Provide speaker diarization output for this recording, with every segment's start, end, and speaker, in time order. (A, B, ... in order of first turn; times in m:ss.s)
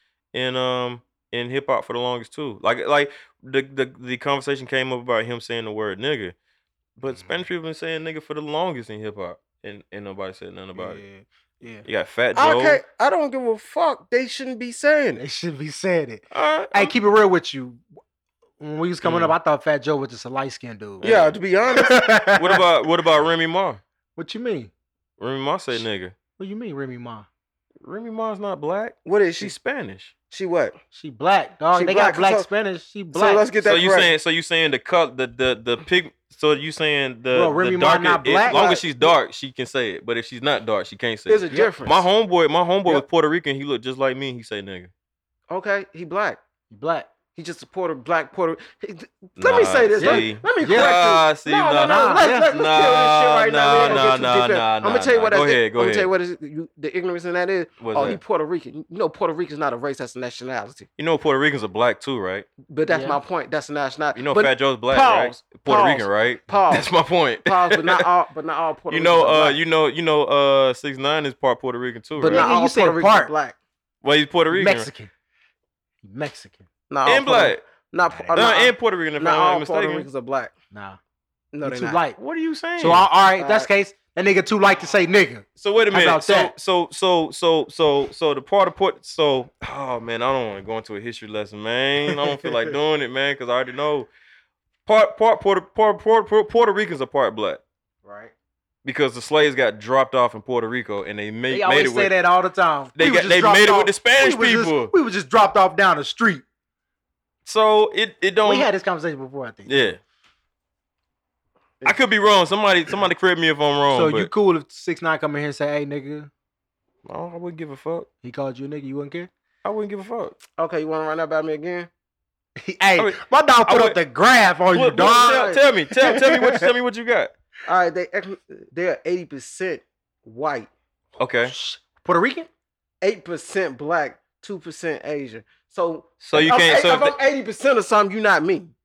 0:00.3-0:06.4 A
0:07.0-0:11.0 A
0:07.1-0:07.4 B
0:10.8-0:11.8 B
0:11.8-0:12.8 A
0:12.3-0:15.2 C
0:15.2-0:17.8 B
0:16.3-0:16.9 A
0:18.6-0:21.1 B
0:19.0-0:19.4 A
0:21.0-0:21.4 A
0:21.0-0:22.0 C
0:21.7-0:22.6 B
0:22.3-0:23.8 A
0:24.2-0:24.7 B
0:25.2-0:26.2 A
0:26.4-0:27.3 B
0:27.8-0:30.1 A
0:29.0-0:29.5 C
0:30.3-0:30.8 C
0:30.9-0:33.5 B
0:31.7-0:32.5 C
0:33.1-0:34.1 C
0:33.6-0:44.9 A
0:37.3-0:38.6 B
0:38.5-0:39.1 C
0:41.3-0:42.1 C
0:45.5-0:46.4 C
0:46.7-0:47.1 B
0:47.4-1:00.9 C
0:49.4-0:56.1 A
0:50.0-0:51.0 B
0:51.8-0:52.5 B
0:53.8-0:54.1 B
0:57.8-0:58.2 A
1:01.0-1:02.5 A
1:02.7-1:06.9 C
1:02.9-1:03.2 B
1:04.2-1:08.1 A
1:07.4-1:09.6 C
1:08.9-1:12.5 A
1:12.2-1:13.6 C
1:12.3-1:13.3 B
1:14.0-1:14.9 A
1:14.5-1:15.1 B
1:16.0-1:16.7 B
1:16.9-1:20.5 C
1:17.1-1:17.6 A
1:18.1-1:18.4 B
1:18.3-1:20.1 A
1:20.7-1:21.0 B
1:21.5-1:22.0 C
1:21.6-1:22.2 B
1:22.2-1:23.1 A
1:22.8-1:26.5 B
1:23.4-1:23.7 C
1:25.6-1:34.1 A
1:32.2-1:32.6 B
1:34.9-1:37.6 A
1:38.0-1:38.3 B
1:38.8-1:42.2 A
1:41.5-1:46.4 B
1:43.0-1:44.9 A
1:47.4-1:48.7 A
1:48.4-1:49.9 B
1:49.7-1:50.0 A
1:51.8-1:54.3 A
1:53.9-1:56.3 B
1:57.1-1:58.1 A
1:58.2-1:59.3 B
1:59.6-2:00.4 A
2:00.6-2:01.9 C
2:02.6-2:05.4 B
2:03.0-2:04.0 A
2:04.7-2:07.3 A
2:05.0-2:05.6 C
2:06.0-2:06.7 B
2:07.7-2:10.7 C
2:11.2-2:11.5 A
2:11.5-2:12.5 B
2:13.0-2:18.7 C
2:16.2-2:17.2 A